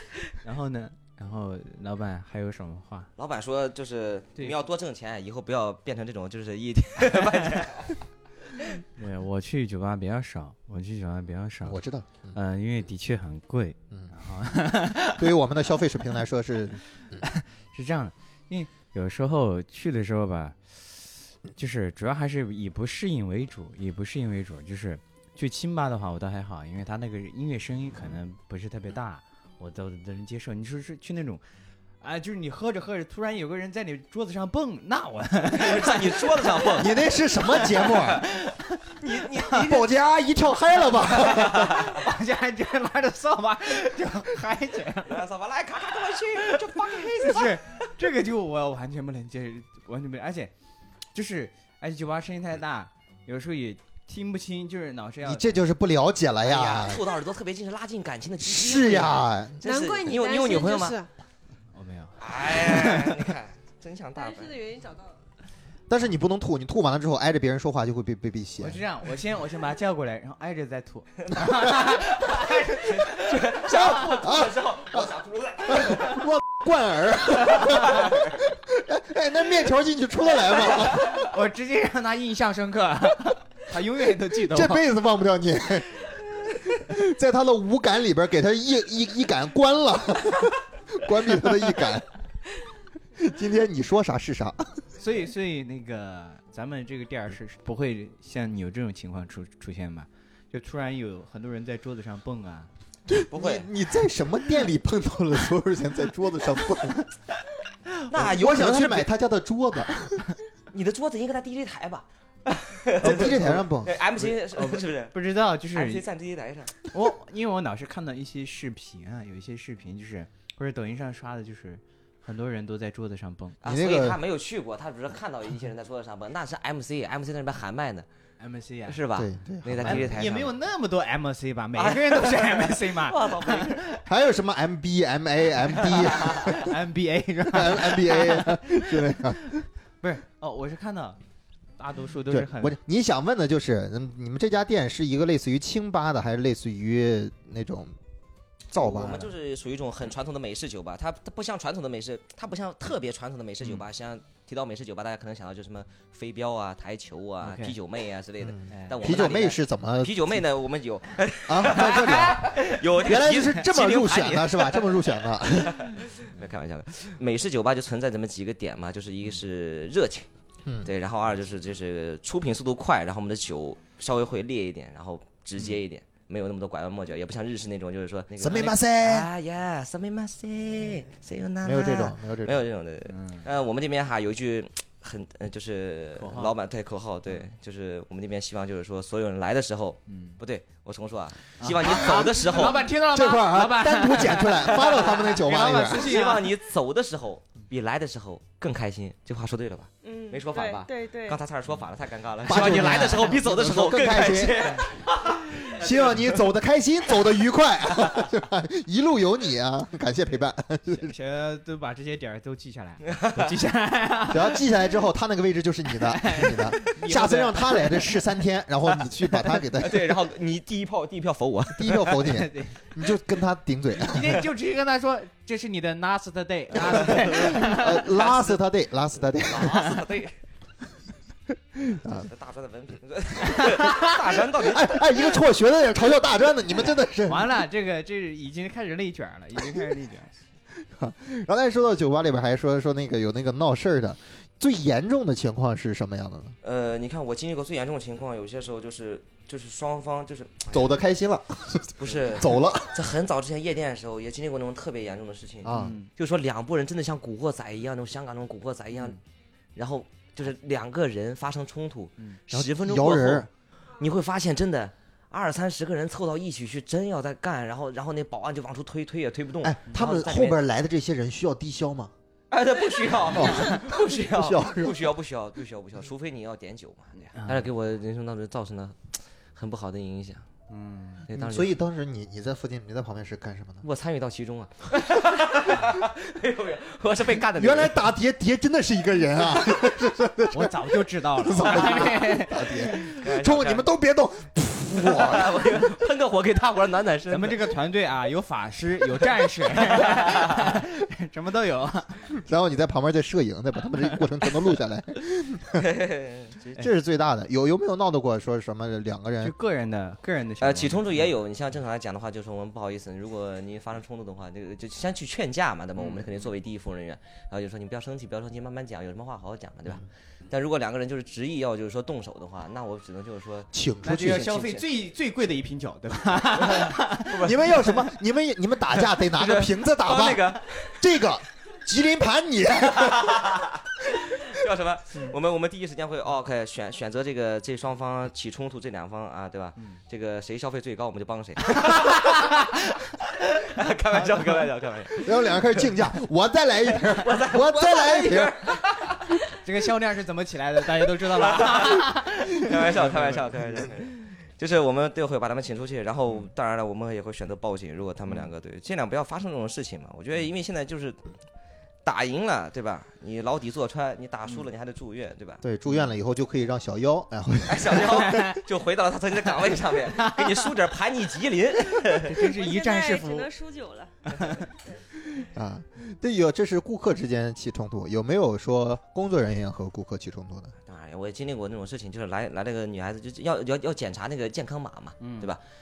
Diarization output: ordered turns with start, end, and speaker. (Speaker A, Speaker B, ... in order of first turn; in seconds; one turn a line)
Speaker A: 0.4-3.1
Speaker B: 3.2-8.0
Speaker A: 9.0-11.8
Speaker C: 11.6-12.4
Speaker A: 12.3-15.3
Speaker C: 15.2-17.2
Speaker A: 17.2-31.4
Speaker A: 32.0-36.9
Speaker B: 35.5-37.0
Speaker C: 36.8-38.2
Speaker A: 37.6-39.4
Speaker B: 37.9-38.2
Speaker B: 39.0-39.9
Speaker C: 39.5-41.9
Speaker B: 41.2-41.9
Speaker A: 41.3-45.3
Speaker B: 45.1-47.9
Speaker A: 46.5-50.5
Speaker A: 51.1-55.6
Speaker C: 55.2-57.1
Speaker B: 56.4-61.0
Speaker C: 58.4-59.6
Speaker D: 59.6-61.1
Speaker A: 61.7-63.2
Speaker B: 62.2-64.5
Speaker D: 64.2-65.2
Speaker C: 65.9-68.8
Speaker A: 68.6-73.6
Speaker B: 72.9-76.2
Speaker C: 73.6-75.1
Speaker C: 75.7-81.3
Speaker B: 77.5-78.3
Speaker A: 80.9-84.8
Speaker C: 84.5-86.1
Speaker C: 86.7-92.1
Speaker C: 93.2-94.8
Speaker A: 95.0-102.7
Speaker C: 103.1-107.1
Speaker B: 103.3-103.7
Speaker B: 108.1-109.1
Speaker C: 108.1-110.2
Speaker B: 110.7-115.2
Speaker C: 113.0-114.0
Speaker A: 113.1-113.3
Speaker A: 114.6-116.1
Speaker B: 115.7-116.9
Speaker A: 116.9-123.6
Speaker B: 123.6-128.1
Speaker C: 123.6-124.2
Speaker A: 128.4-129.1
Speaker B: 128.9-130.6
Speaker C: 129.2-130.3
Speaker A: 129.8-134.0
Speaker B: 131.7-133.8
Speaker C: 134.1-136.7
Speaker B: 136.2-136.6
Speaker A: 136.4-141.2
Speaker C: 137.5-139.6
Speaker A: 141.8-142.8
Speaker C: 142.3-148.0
Speaker C: 148.7-149.3
Speaker B: 148.7-170.3
Speaker A: 157.4-157.8
Speaker C: 158.4-160.4
Speaker A: 158.7-159.2
Speaker C: 161.5-165.9
Speaker A: 161.8-162.8
Speaker B: 170.8-192.9
Speaker C: 178.4-179.3
Speaker C: 181.6-182.6
Speaker A: 183.1-183.5
Speaker A: 186.2-186.5
Speaker A: 190.1-190.4
Speaker A: 191.6-196.6
Speaker C: 192.0-196.2
Speaker B: 194.7-206.3
Speaker E: 200.0-201.4
Speaker C: 202.5-204.8
Speaker C: 205.5-211.1
Speaker A: 210.9-214.6
Speaker B: 213.1-213.5
Speaker C: 214.3-220.2
Speaker A: 216.0-218.2
Speaker B: 219.8-222.2
Speaker C: 221.8-224.5
Speaker A: 222.2-222.8
Speaker A: 224.0-228.3
Speaker C: 226.9-229.9
Speaker B: 228.1-228.4
Speaker B: 229.4-230.4
Speaker C: 231.8-232.3
Speaker B: 232.1-235.5
Speaker A: 233.6-233.9
Speaker C: 234.6-237.6
Speaker A: 237.2-240.3
Speaker C: 240.8-246.6
Speaker B: 246.6-250.9
Speaker C: 250.7-253.0
Speaker B: 252.0-259.2
Speaker C: 255.7-256.0
Speaker A: 255.7-256.1
Speaker A: 258.9-259.2
Speaker B: 259.8-270.6
Speaker C: 262.5-263.5
Speaker C: 269.6-272.1
Speaker B: 272.5-280.5
Speaker C: 273.3-275.0
Speaker A: 277.3-277.7
Speaker A: 280.7-281.3
Speaker B: 281.3-281.7
Speaker C: 281.3-283.8
Speaker B: 283.8-288.0
Speaker C: 287.6-295.8
Speaker A: 290.5-293.1
Speaker B: 293.0-293.9
Speaker B: 295.0-297.7
Speaker A: 297.3-302.3
Speaker C: 302.3-305.8
Speaker B: 305.8-306.8
Speaker C: 306.8-309.5
Speaker A: 309.4-311.3
Speaker B: 310.6-323.7
Speaker A: 316.0-316.2
Speaker C: 323.7-324.6
Speaker A: 324.0-327.5
Speaker B: 324.4-324.9
Speaker C: 326.6-333.7
Speaker B: 327.3-327.8
Speaker B: 329.2-331.1
Speaker B: 333.0-345.8
Speaker A: 341.8-342.7
Speaker A: 344.1-344.7
Speaker C: 345.2-348.6
Speaker B: 346.9-349.4
Speaker A: 349.6-353.5
Speaker B: 351.2-361.2
Speaker B: 362.0-365.6
Speaker C: 365.6-368.4
Speaker B: 367.7-372.5
Speaker A: 368.2-368.6
Speaker A: 370.2-370.7
Speaker A: 372.1-373.5
Speaker E: 372.4-374.1
Speaker A: 374.3-374.6
Speaker C: 375.3-380.7
Speaker B: 380.9-385.6
Speaker A: 385.2-385.5